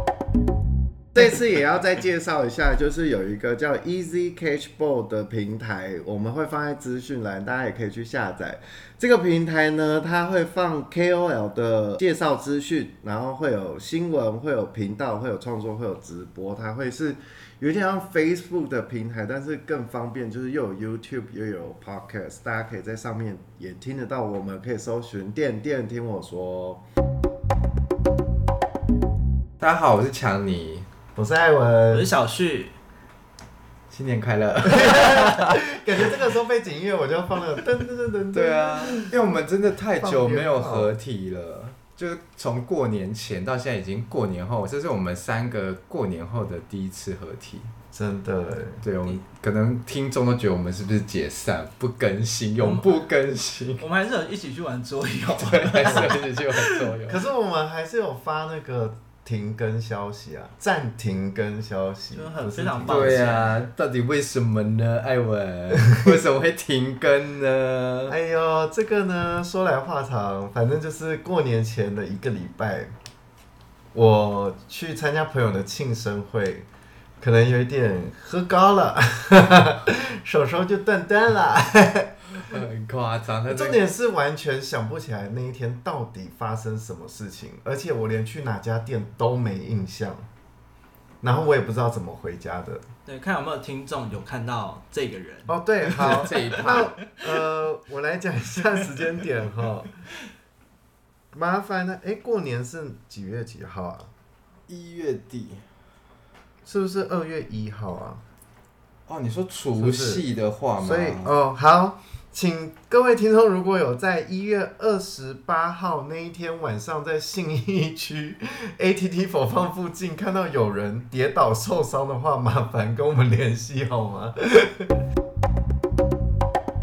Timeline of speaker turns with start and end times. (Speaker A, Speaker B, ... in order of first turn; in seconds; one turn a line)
Speaker A: 1.1-26.8
Speaker B: 29.6-30.9
Speaker A: 31.1-32.1
Speaker C: 31.9-32.7
Speaker B: 33.9-35.5
Speaker A: 34.8-39.2
Speaker B: 38.3-47.7
Speaker A: 40.0-40.9
Speaker A: 47.9-48.8
Speaker B: 48.8-53.8
Speaker C: 52.6-52.9
Speaker C: 53.8-56.9
Speaker B: 55.4-57.3
Speaker A: 57.1-63.2
Speaker C: 62.1-63.6
Speaker B: 62.9-68.1
Speaker A: 68.1-72.9
Speaker A: 73.9-76.7
Speaker A: 77.2-82.6
Speaker B: 82.4-83.8
Speaker A: 83.5-90.2
Speaker A: 91.2-92.8
Speaker C: 93.0-96.8
Speaker A: 95.5-99.9
Speaker B: 96.0-96.9
Speaker A: 101.3-104.1
Speaker B: 104.7-105.6
Speaker A: 106.6-108.2
Speaker B: 109.1-111.3
Speaker A: 109.7-110.2
Speaker A: 110.8-125.0